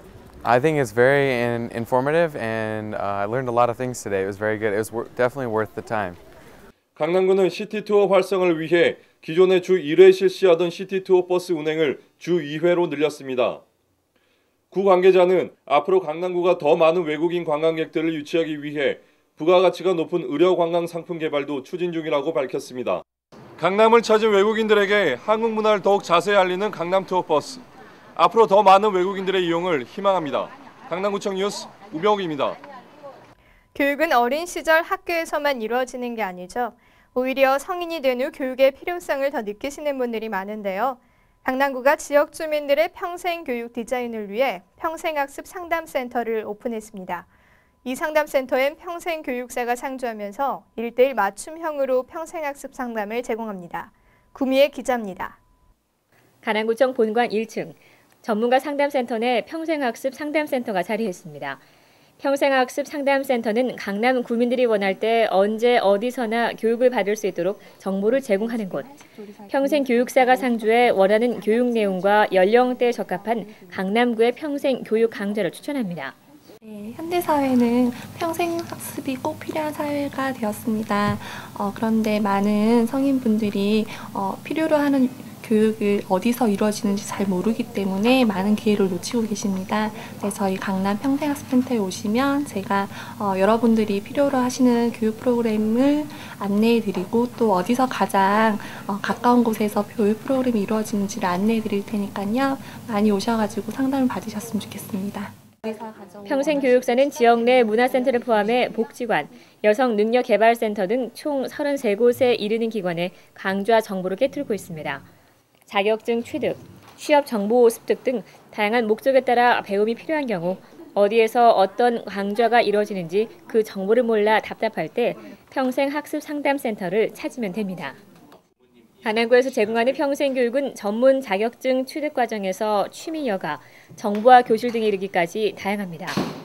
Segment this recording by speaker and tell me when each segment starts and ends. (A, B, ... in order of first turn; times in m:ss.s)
0:00.4-0:06.2 A
0:07.0-0:13.6 B
0:14.7-0:23.0 B
0:23.6-0:27.6 B
0:28.2-0:32.6 B
0:33.8-0:47.3 C
0:47.8-0:55.4 C
0:56.4-1:01.6 D
1:02.2-1:08.9 D
1:09.5-1:16.2 D
1:16.6-1:46.8 E
1:46.3-1:55.0 D
1:55.7-2:08.0 D
2:09.0-2:16.2 D